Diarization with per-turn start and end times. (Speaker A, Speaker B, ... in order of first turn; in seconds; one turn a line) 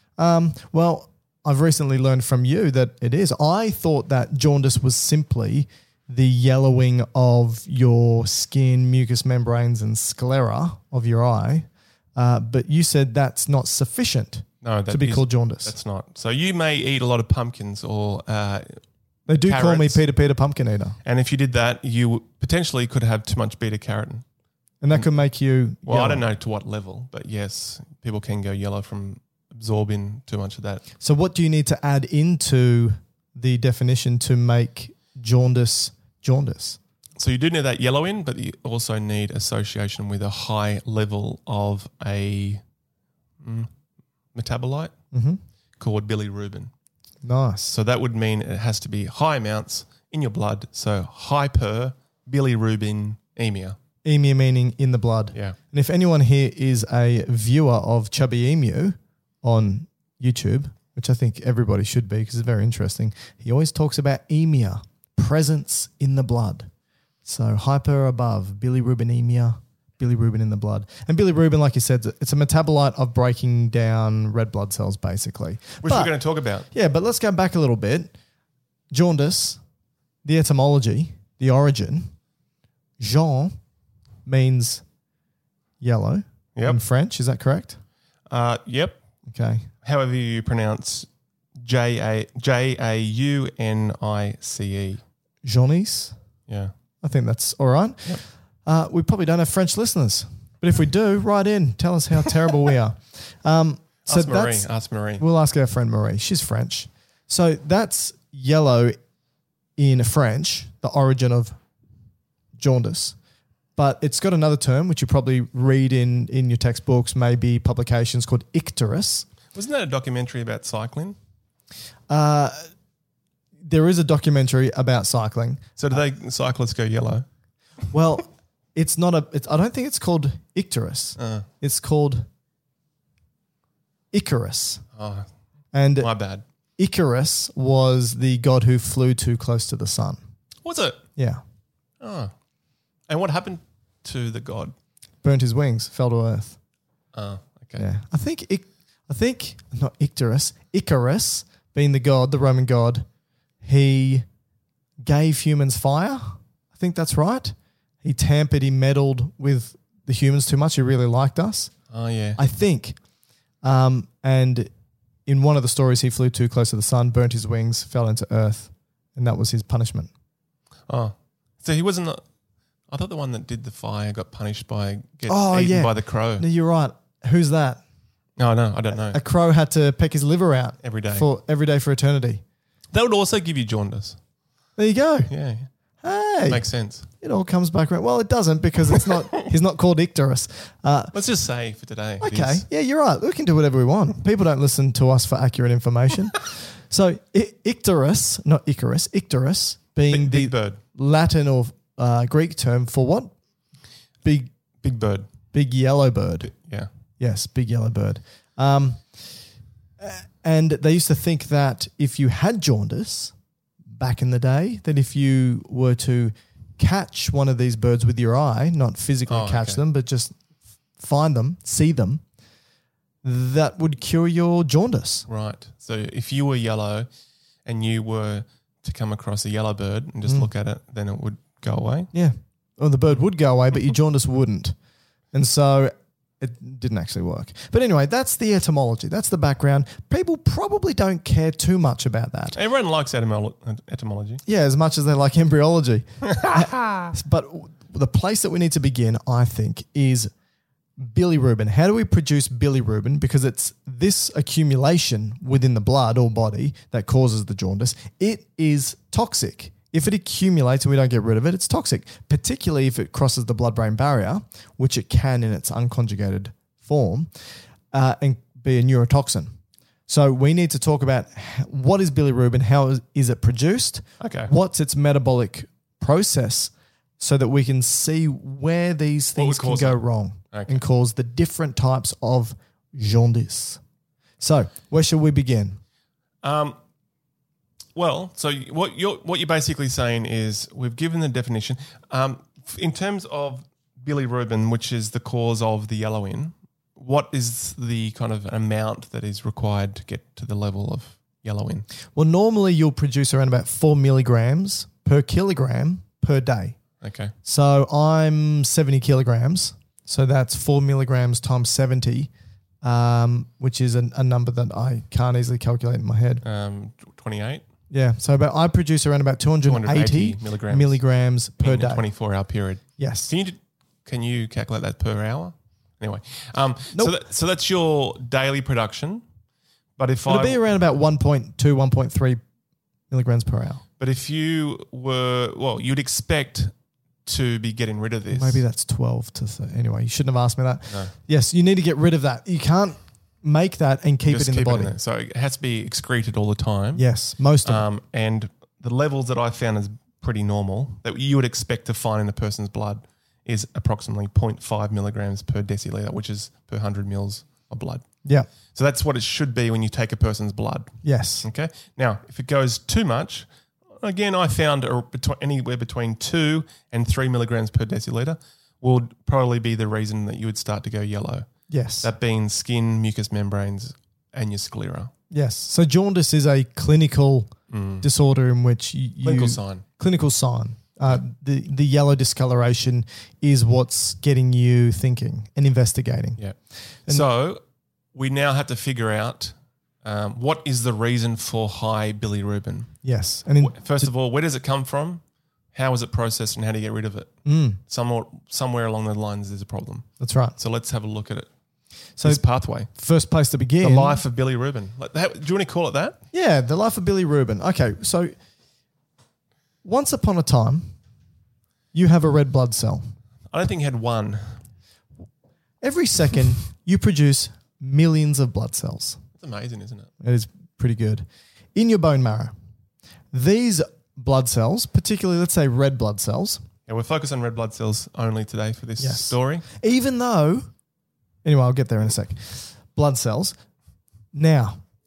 Speaker A: 0.2-15.8
Speaker B: 14.6-18.8
Speaker A: 19.3-21.0
Speaker B: 19.4-20.0
Speaker B: 21.1-24.2
Speaker A: 24.8-26.3
Speaker B: 25.9-30.8
Speaker A: 31.0-36.8
Speaker B: 37.2-42.6
Speaker B: 43.4-43.7
Speaker B: 44.3-44.9
Speaker A: 45.1-45.4
Speaker B: 45.8-46.7
Speaker A: 47.2-47.7
Speaker B: 47.7-53.8
Speaker A: 54.0-66.7
Speaker A: 67.2-76.1
Speaker B: 75.8-76.7
Speaker A: 76.7-78.1
Speaker A: 78.9-79.6
Speaker A: 80.2-82.1
Speaker A: 83.0-83.5
Speaker A: 84.2-84.8
Speaker A: 85.8-87.8
Speaker B: 88.3-89.0
Speaker A: 89.3-89.7
Speaker B: 89.8-91.1
Speaker B: 91.6-95.0
Speaker A: 95.5-96.2
Speaker B: 96.5-96.7
Speaker A: 97.0-109.0
Speaker B: 104.1-105.2
Speaker A: 109.8-111.6
Speaker A: 112.6-113.2
Speaker A: 113.8-119.3
Speaker B: 119.5-121.2
Speaker A: 122.1-122.7
Speaker A: 123.6-125.7
Speaker B: 125.8-127.2
Speaker A: 127.9-132.3
Speaker B: 131.2-131.5
Speaker A: 134.1-134.8
Speaker B: 135.0-135.3
Speaker A: 135.7-136.1
Speaker B: 136.0-136.4
Speaker A: 136.8-140.2
Speaker B: 140.6-141.0
Speaker A: 141.2-141.4
Speaker B: 142.0-142.3
Speaker B: 143.1-144.8
Speaker A: 145.2-146.6
Speaker B: 147.1-147.8
Speaker A: 147.8-153.1
Speaker A: 153.6-154.3
Speaker A: 155.0-161.7
Speaker B: 161.9-162.4
Speaker A: 162.4-163.0
Speaker A: 163.6-164.7
Speaker A: 165.3-170.1
Speaker B: 170.9-172.2
Speaker B: 172.9-176.4
Speaker A: 175.3-177.8
Speaker B: 178.4-179.2
Speaker A: 178.9-182.4
Speaker B: 180.8-181.3
Speaker B: 182.9-184.2
Speaker A: 184.8-185.3
Speaker B: 185.3-185.7
Speaker A: 186.0-186.7
Speaker B: 186.5-187.1
Speaker A: 187.2-191.2
Speaker B: 191.1-192.7
Speaker A: 192.2-203.3
Speaker B: 200.1-200.8
Speaker A: 204.2-204.5
Speaker B: 204.8-205.3
Speaker A: 205.5-206.5
Speaker B: 206.5-206.9
Speaker A: 207.2-209.5
Speaker A: 210.0-213.3
Speaker A: 213.9-220.4
Speaker B: 219.3-219.8
Speaker A: 221.0-222.2
Speaker A: 223.2-225.3
Speaker B: 225.3-227.1
Speaker B: 227.7-232.1
Speaker A: 232.1-234.8
Speaker A: 235.3-242.6
Speaker B: 242.6-244.4
Speaker A: 244.5-250.3
Speaker B: 246.3-247.1
Speaker A: 251.0-267.3
Speaker A: 267.9-269.5
Speaker A: 270.1-283.8
Speaker B: 274.2-274.5
Speaker B: 279.4-280.0
Speaker B: 280.5-280.8
Speaker A: 284.4-285.8
Speaker B: 286.4-286.8
Speaker B: 287.9-301.9
Speaker A: 302.1-306.8
Speaker B: 307.0-307.3
Speaker A: 307.4-312.3
Speaker A: 312.8-316.4
Speaker B: 316.4-317.6
Speaker A: 317.9-322.0
Speaker B: 319.7-321.0
Speaker B: 321.6-329.2
Speaker A: 323.0-323.3
Speaker B: 330.0-330.6
Speaker A: 330.3-332.4
Speaker A: 333.1-333.8
Speaker B: 334.0-336.7
Speaker B: 337.2-338.6
Speaker A: 338.3-344.9
Speaker B: 344.3-347.1
Speaker A: 346.9-347.9
Speaker B: 347.6-358.0
Speaker B: 358.7-371.5
Speaker A: 361.0-361.5
Speaker A: 371.7-372.1
Speaker B: 372.0-375.1
Speaker A: 375.3-386.4
Speaker B: 377.7-378.1
Speaker B: 379.2-379.9
Speaker B: 387.1-387.6
Speaker B: 388.1-392.9
Speaker A: 393.0-394.1
Speaker B: 393.6-395.2
Speaker B: 395.7-397.3
Speaker A: 397.5-397.8
Speaker B: 397.9-401.5
Speaker A: 400.2-400.6
Speaker A: 402.2-404.2
Speaker B: 402.2-402.9
Speaker B: 403.8-406.2
Speaker A: 406.3-408.3
Speaker A: 409.8-410.9
Speaker A: 411.9-413.1
Speaker B: 413.5-414.6
Speaker A: 415.8-419.2
Speaker B: 419.4-420.1
Speaker A: 420.2-422.5
Speaker A: 423.3-426.6
Speaker B: 426.9-429.6
Speaker A: 429.0-430.7
Speaker A: 431.4-433.6
Speaker A: 434.3-434.8